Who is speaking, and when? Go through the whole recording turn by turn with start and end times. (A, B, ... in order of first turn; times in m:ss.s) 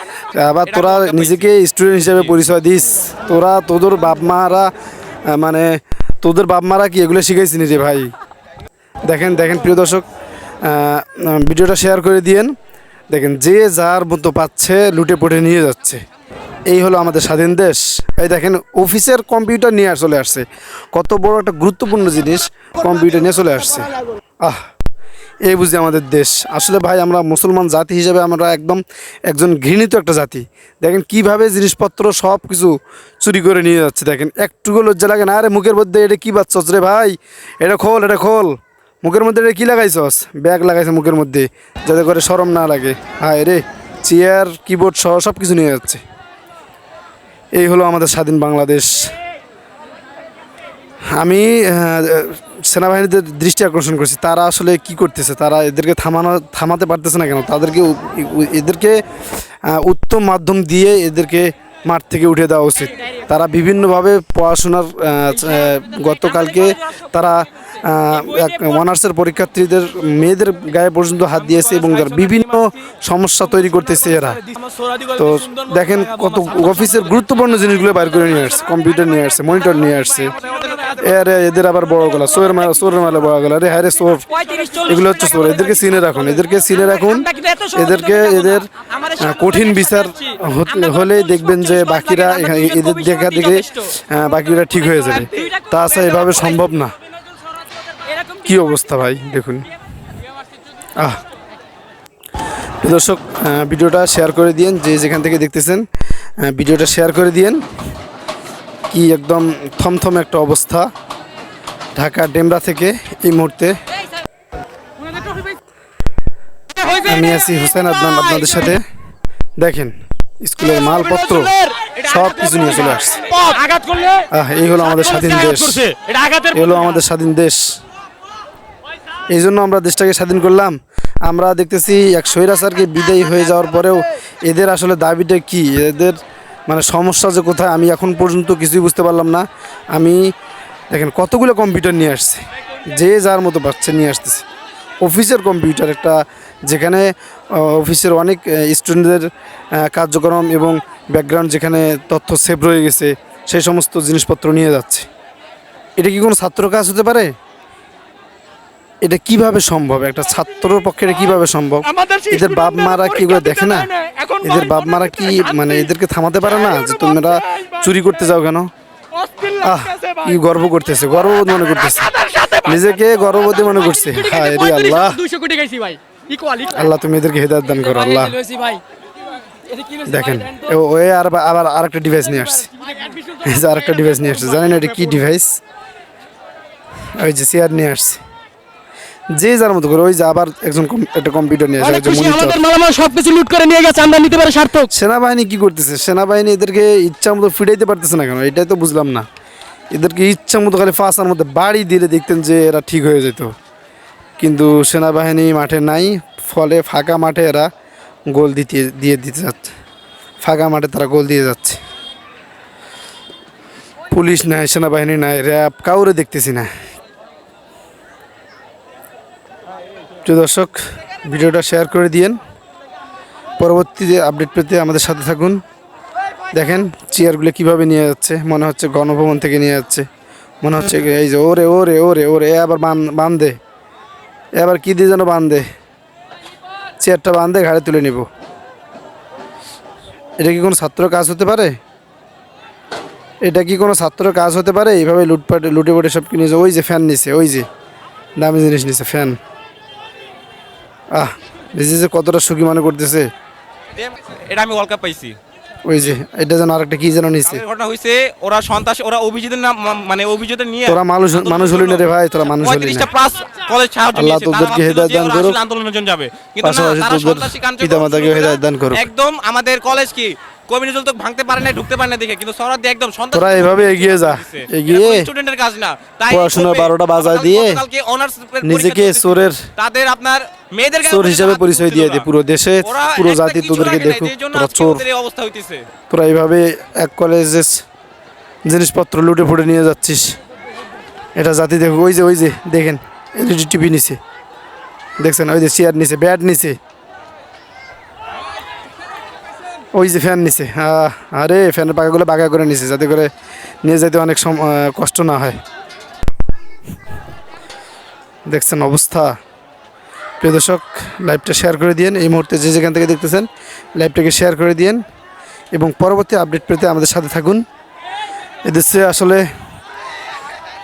0:00.3-0:04.7 A
0:00.7-0:01.5 B
0:02.1-0:02.4 B
0:05.3-0:08.1 A
0:09.1-0:10.0 A
0:10.6-0:12.5 A
0:13.1-0:16.0 A
0:16.7-0:23.9 A
0:25.4-0:46.0 A
0:47.5-0:49.1 A
0:51.2-0:59.0 A
0:59.7-1:14.4 A
1:15.1-1:20.4 A
1:20.9-1:37.0 A
1:24.4-1:25.1 B
1:24.5-1:25.5 C
1:26.8-1:28.3 C
1:28.8-1:29.8 B
1:29.2-1:29.5 C
1:30.8-1:33.6 B
1:32.2-1:33.8 C
1:38.4-1:39.7 A
1:42.8-1:45.9 A
1:46.4-1:47.6 A
1:48.9-1:50.9 A
1:52.0-1:53.8 A
1:56.9-1:58.8 A
1:59.6-2:03.3 A
2:03.3-2:03.6 B
2:03.6-2:04.2 C
2:04.3-2:05.9 A
2:05.1-2:06.6 C
2:06.4-2:07.6 A
2:09.3-2:16.2 A
2:16.7-2:20.3 A
2:20.9-2:24.4 A
2:25.0-2:35.1 A
2:36.0-2:37.3 A
2:39.0-2:48.7 A
2:49.6-2:55.3 A
2:54.3-2:56.7 C
2:56.6-2:58.4 A
2:58.2-2:58.8 C
3:00.0-3:02.7 A
3:03.4-3:05.6 A
3:07.2-3:08.2 A
3:09.3-3:12.7 A
3:11.8-3:14.8 C
3:14.8-3:19.3 A
3:19.9-3:23.5 A
3:24.4-3:27.7 A
3:28.3-3:29.7 A
3:30.4-3:31.8 A
3:34.1-3:36.7 A
3:40.2-3:42.4 A
3:43.6-3:45.6 A
3:46.5-3:50.1 A
3:50.6-3:53.6 A
3:54.6-3:55.6 A
3:57.0-3:58.3 A
4:00.4-4:01.8 A
4:03.4-4:07.7 A
4:08.4-4:09.4 A
4:11.1-4:13.3 A
4:14.0-4:15.4 B
4:15.9-4:17.6 A
4:17.5-4:42.3 B
4:20.8-4:23.1 A
4:24.1-4:25.6 A
4:26.6-4:29.1 A
4:33.3-4:35.3 A
4:36.3-4:37.8 A
4:38.6-4:39.7 A
4:41.0-4:45.0 A
4:42.8-4:45.9 B
4:46.0-4:47.8 A
4:48.7-4:50.4 A
4:51.4-4:54.2 A
4:55.2-4:56.8 A
4:59.9-5:03.3 A
5:03.8-5:05.6 A
5:08.5-5:09.3 A
5:10.4-5:15.0 A
5:15.7-5:17.6 A
5:18.6-5:19.4 A